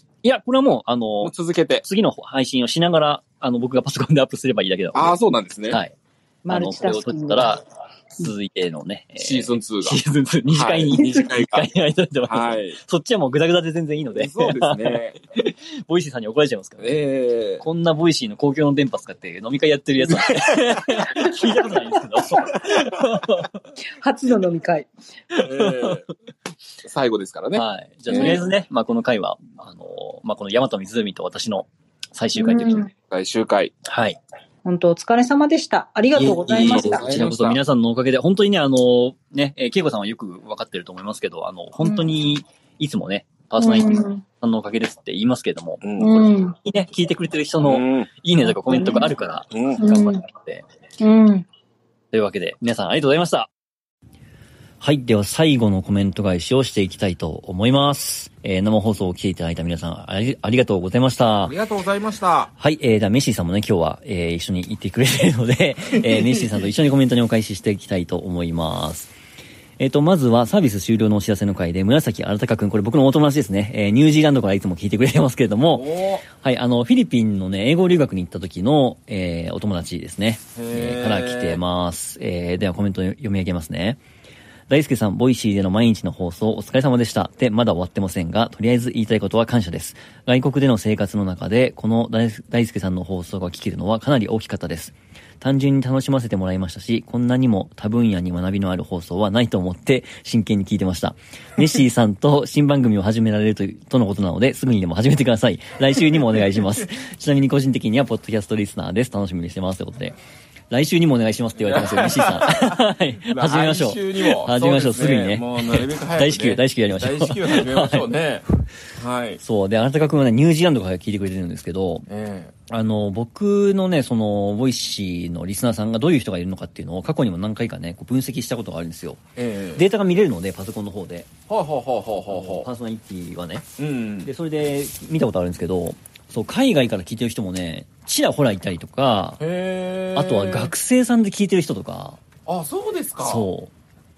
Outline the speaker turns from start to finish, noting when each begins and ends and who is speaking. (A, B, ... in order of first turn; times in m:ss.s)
0:00.2-0:05.2 A
0:01.2-0:01.8 B
0:04.9-0:05.8 B
0:05.7-0:06.0 A
0:06.4-0:07.6 C
0:06.5-0:07.6 A
0:08.2-0:17.0 A
0:09.2-0:10.0 B
0:10.5-0:11.7 B
0:12.3-0:12.8 B
0:14.1-0:15.2 B
0:16.8-0:17.6 B
0:17.6-0:23.6 A
0:24.0-0:24.9 C
0:25.3-0:26.0 A
0:25.4-0:26.1 B
0:26.8-0:28.4 B
0:27.5-0:32.9 A
0:28.1-0:28.4 C
0:32.4-0:32.9 C
0:33.0-0:33.7 B
0:33.8-0:34.2 A
0:34.6-0:37.1 C
0:36.1-0:45.9 A
0:36.6-0:37.6 B
0:41.8-0:42.1 C
0:43.6-0:44.2 C
0:45.8-0:46.3 B
0:46.0-0:46.6 C
0:46.6-0:50.6 A
0:47.6-0:48.1 B
0:48.7-0:49.1 C
0:49.5-0:49.8 B
0:49.8-0:50.2 C
0:51.0-0:51.5 C
0:52.1-0:53.5 A
0:54.8-1:01.5 A
1:01.4-1:02.5 B
1:02.6-1:09.1 A
1:05.9-1:06.6 B
1:09.8-1:24.0 A
1:15.7-1:16.3 B
1:20.6-1:21.6 B
1:24.7-1:50.2 A
1:50.7-1:58.1 A
1:51.6-1:59.4 B
1:59.4-2:02.1 A
2:02.1-2:02.5 B
2:02.7-2:09.2 A
2:09.4-2:09.8 B
2:09.8-2:11.3 A
2:11.5-2:12.7 B
2:12.3-2:13.7 A
2:13.8-2:14.3 B
2:14.2-2:19.4 A
2:19.4-2:20.7 B
2:20.2-2:22.2 A
2:22.5-2:23.5 B
2:23.2-2:23.7 A